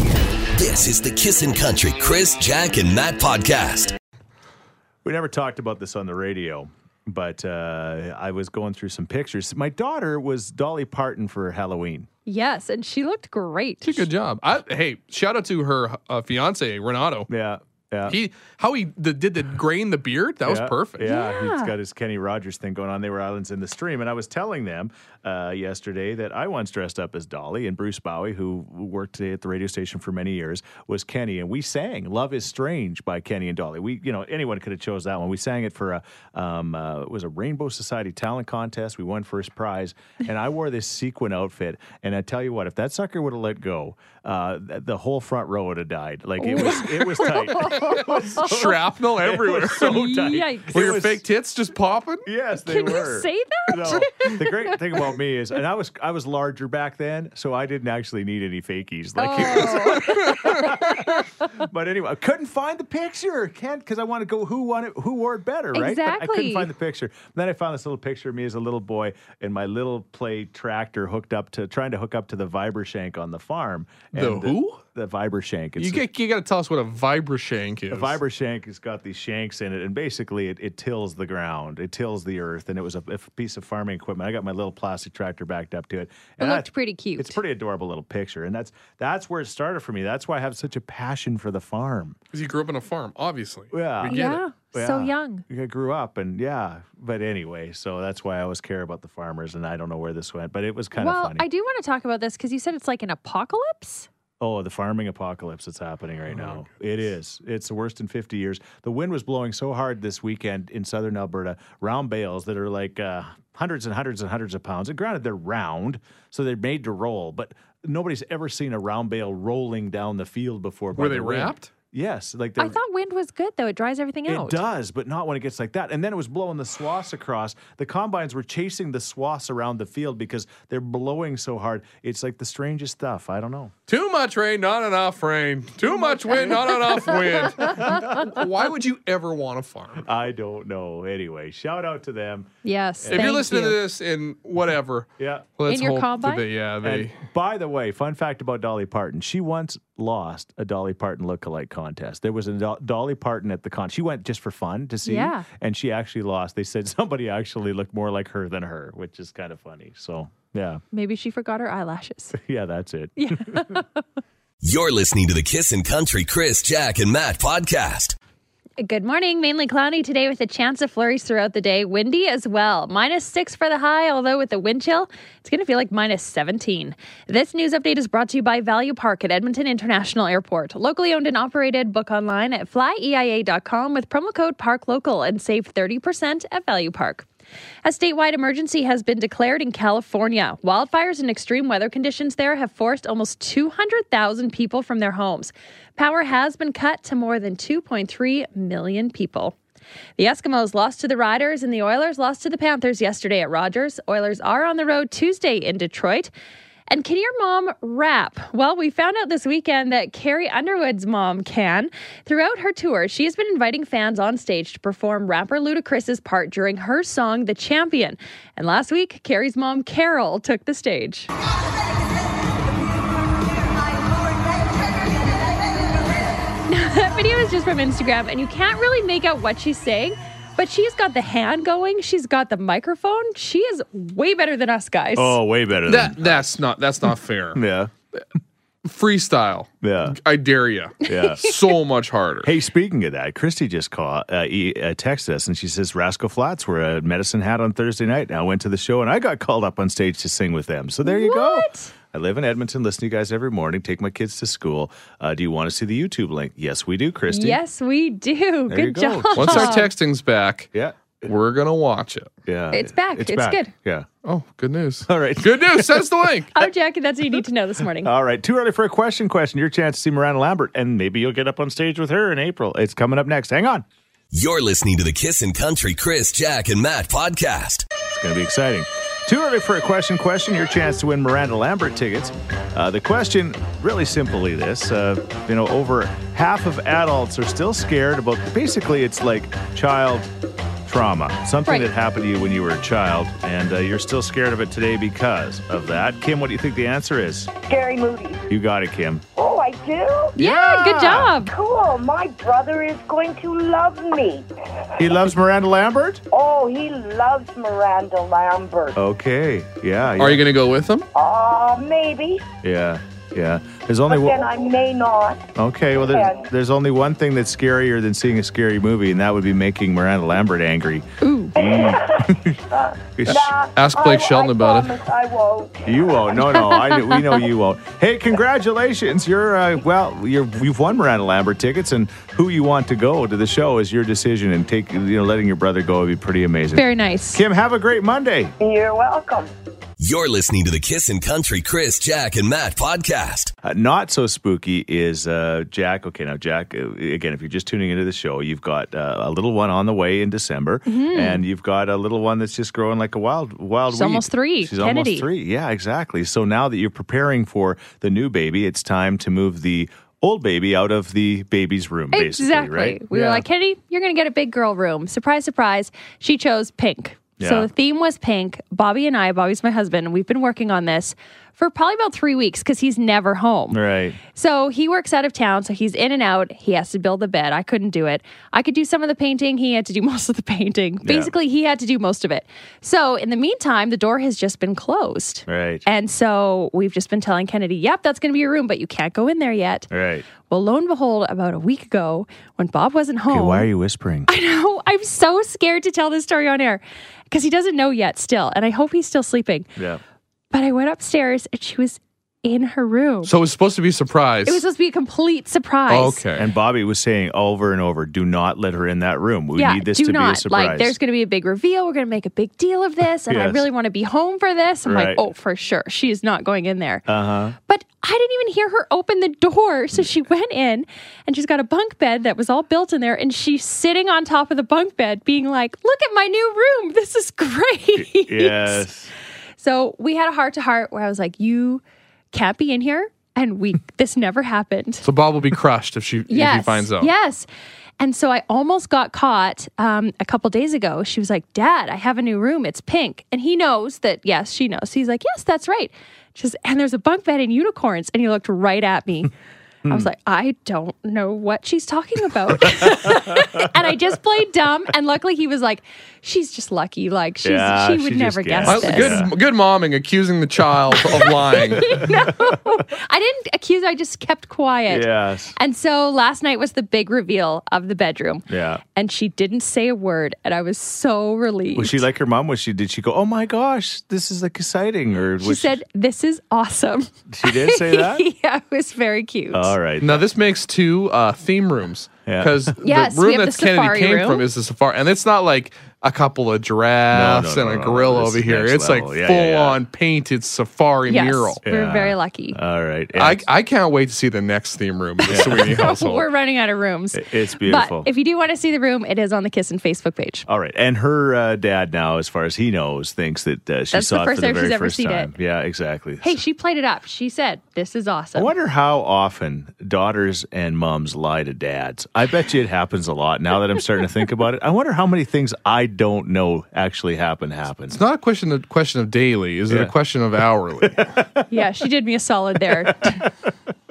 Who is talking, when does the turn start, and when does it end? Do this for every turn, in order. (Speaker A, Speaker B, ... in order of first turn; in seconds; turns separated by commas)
Speaker A: 0.6-3.9, Speaker B: 5.0-12.1, Speaker C: 12.3-14.1, Speaker D: 13.8-17.3, Speaker B: 17.3-18.2, Speaker D: 18.1-21.1, Speaker B: 20.5-51.2, Speaker C: 21.1-21.7, Speaker C: 46.4-48.5, Speaker D: 48.3-50.0, Speaker C: 49.8-50.8, Speaker D: 50.7-52.3, Speaker B: 52.3-76.0, Speaker C: 52.7-54.8, Speaker C: 59.2-61.2, Speaker D: 60.1-60.6, Speaker C: 65.7-66.7, Speaker D: 74.1-74.8, Speaker D: 75.8-78.2, Speaker B: 77.9-92.2, Speaker C: 86.4-87.4, Speaker D: 92.3-94.4, Speaker B: 93.7-101.5, Speaker C: 94.0-95.5, Speaker C: 101.0-104.1, Speaker B: 104.4-122.8, Speaker D: 106.3-106.7, Speaker D: 121.0-121.7, Speaker C: 122.6-124.6, Speaker B: 124.3-133.7, Speaker D: 133.9-140.1, Speaker C: 136.0-138.0, Speaker B: 137.6-138.3, Speaker B: 140.0-143.3, Speaker C: 142.6-143.8, Speaker D: 143.1-147.2, Speaker B: 145.2-145.5, Speaker C: 145.7-146.4, Speaker B: 146.8-160.8, Speaker C: 155.0-155.5, Speaker C: 160.9-162.4, Speaker B: 162.3-163.8, Speaker C: 163.2-164.0, Speaker A: 164.6-168.2, Speaker C: 168.8-187.3, Speaker C: 187.8-199.6, Speaker C: 200.2-206.3, Speaker C: 206.9-221.3, Speaker C: 226.7-235.4, Speaker B: 235.2-236.6, Speaker D: 235.9-237.6, Speaker B: 237.5-237.9, Speaker D: 238.8-242.5, Speaker B: 239.8-240.2, Speaker B: 241.1-241.6, Speaker B: 242.4-257.6, Speaker C: 251.0-251.9, Speaker C: 257.3-259.9, Speaker B: 258.7-259.9, Speaker D: 259.4-260.7, Speaker B: 260.7-261.2, Speaker D: 261.2-262.3, Speaker B: 262.5-264.1, Speaker C: 262.7-263.7, Speaker D: 264.2-266.6, Speaker B: 265.1-266.1, Speaker C: 266.5-268.1, Speaker B: 268.0-273.9, Speaker A: 274.3-277.9, Speaker B: 278.1-290.3, Speaker B: 290.9-297.5, Speaker E: 297.7-298.5, Speaker B: 298.5-299.2, Speaker E: 299.4-300.4, Speaker B: 300.4-301.4, Speaker C: 300.4-301.5, Speaker E: 301.5-304.5, Speaker B: 305.0-306.2, Speaker E: 306.3-309.0, Speaker B: 308.9-310.5, Speaker D: 310.2-311.1, Speaker E: 311.1-312.4, Speaker B: 312.6-314.4, Speaker E: 314.1-316.4, Speaker B: 315.6-322.6, Speaker C: 321.2-321.6, Speaker E: 321.6-326.4, Speaker B: 323.2-323.5, Speaker D: 323.3-325.0, Speaker B: 325.9-338.5, Speaker C: 326.4-327.4, Speaker C: 336.7-337.4, Speaker E: 338.6-339.5, Speaker A: 340.0-343.5, Speaker B: 343.6-363.4, Speaker C: 350.9-351.4, Speaker C: 353.9-355.3, Speaker C: 362.1-373.8, Speaker B: 367.4-367.7, Speaker B: 373.7-374.2, Speaker C: 374.3-389.9, Speaker B: 381.0-381.3, Speaker B: 385.5-385.9, Speaker B: 389.9-390.3, Speaker C: 390.5-393.7, Speaker B: 393.3-394.3, Speaker C: 394.3-399.7, Speaker B: 399.8-400.0, Speaker C: 400.5-403.3, Speaker D: 403.2-404.6, Speaker C: 404.5-406.2, Speaker D: 405.9-406.5, Speaker B: 406.4-411.0, Speaker C: 409.6-417.1, Speaker B: 413.3-413.6, Speaker B: 414.9-415.2, Speaker B: 417.1-417.6, Speaker C: 417.7-428.9, Speaker B: 428.0-429.1, Speaker C: 429.6-435.1, Speaker D: 435.0-437.1, Speaker C: 436.3-437.5, Speaker C: 438.0-449.3, Speaker B: 449.8-450.1, Speaker C: 449.9-459.3, Speaker B: 452.7-453.6, Speaker B: 457.4-459.3, Speaker D: 458.7-462.0, Speaker C: 461.3-472.1, Speaker B: 464.9-465.6, Speaker B: 468.5-468.8, Speaker B: 471.7-475.8, Speaker C: 475.4-479.7, Speaker B: 477.3-478.2, Speaker B: 479.5-480.3, Speaker D: 480.0-491.6, Speaker B: 482.3-482.7, Speaker C: 482.8-484.4, Speaker B: 487.1-489.8, Speaker C: 491.1-492.6, Speaker B: 491.6-493.5, Speaker D: 493.2-496.3, Speaker B: 495.3-495.8, Speaker C: 495.3-500.5, Speaker B: 497.1-498.1, Speaker B: 500.5-506.4, Speaker C: 503.9-505.3, Speaker C: 506.2-508.5, Speaker B: 508.4-518.0, Speaker D: 517.9-521.2, Speaker B: 521.2-521.4, Speaker C: 521.5-523.2